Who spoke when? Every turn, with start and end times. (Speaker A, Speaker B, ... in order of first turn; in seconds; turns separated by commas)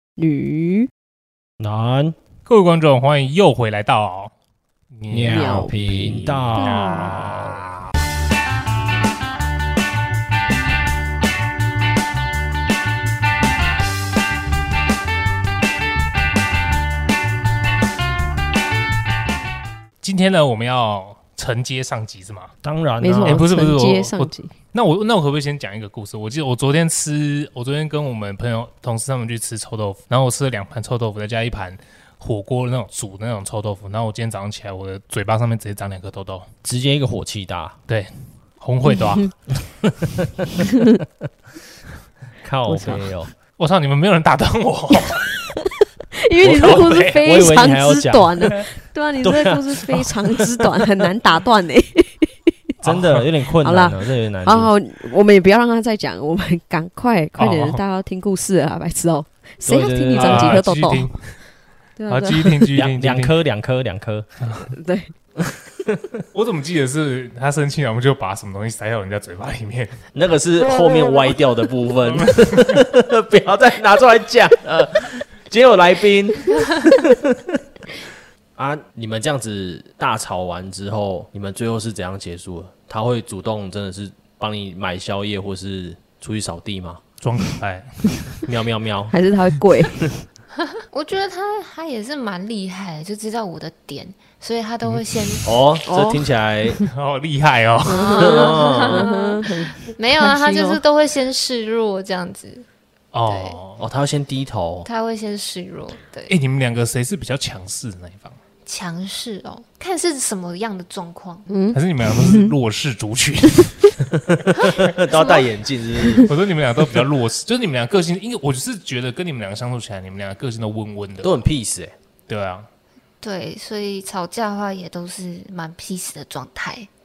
Speaker A: 0.2-0.9, Speaker B: 1.6-2.1, Speaker C: 2.5-4.3, Speaker C: 5.0-7.8, Speaker B: 5.1-7.6, Speaker A: 5.2-7.2, Speaker C: 20.0-22.5, Speaker B: 22.6-23.4, Speaker A: 23.0-24.5, Speaker C: 23.2-36.5, Speaker B: 36.6-37.8, Speaker C: 37.9-39.4, Speaker A: 38.9-39.3, Speaker B: 42.4-43.3, Speaker C: 42.7-43.0, Speaker C: 43.6-45.3, Speaker A: 46.1-52.5, Speaker B: 46.4-48.5, Speaker C: 46.6-47.2, Speaker B: 49.2-50.9, Speaker B: 52.8-54.7, Speaker C: 52.8-53.2, Speaker A: 53.6-61.3, Speaker C: 57.4-57.8, Speaker B: 59.6-60.6, Speaker C: 60.1-61.4, Speaker A: 62.0-62.7, Speaker C: 62.1-63.4, Speaker B: 62.7-64.3, Speaker A: 64.7-65.1, Speaker B: 65.5-66.2, Speaker C: 66.3-70.0, Speaker B: 70.1-77.6, Speaker C: 72.1-72.8, Speaker B: 78.6-87.0, Speaker C: 87.2-88.0, Speaker B: 88.4-89.2, Speaker A: 89.1-90.2, Speaker D: 90.9-95.5, Speaker B: 95.5-96.8, Speaker A: 95.9-96.3, Speaker C: 96.9-98.2, Speaker A: 97.8-100.8, Speaker D: 97.9-102.7, Speaker B: 98.2-99.0, Speaker C: 103.1-103.8, Speaker D: 103.3-103.6, Speaker B: 103.8-104.9, Speaker D: 104.9-106.3, Speaker C: 106.3-108.4, Speaker D: 108.7-111.5, Speaker A: 111.5-112.5, Speaker C: 111.7-114.0, Speaker B: 114.3-116.3, Speaker D: 115.1-115.5, Speaker C: 116.2-121.4, Speaker B: 121.2-121.9, Speaker C: 122.3-122.7, Speaker D: 123.2-126.9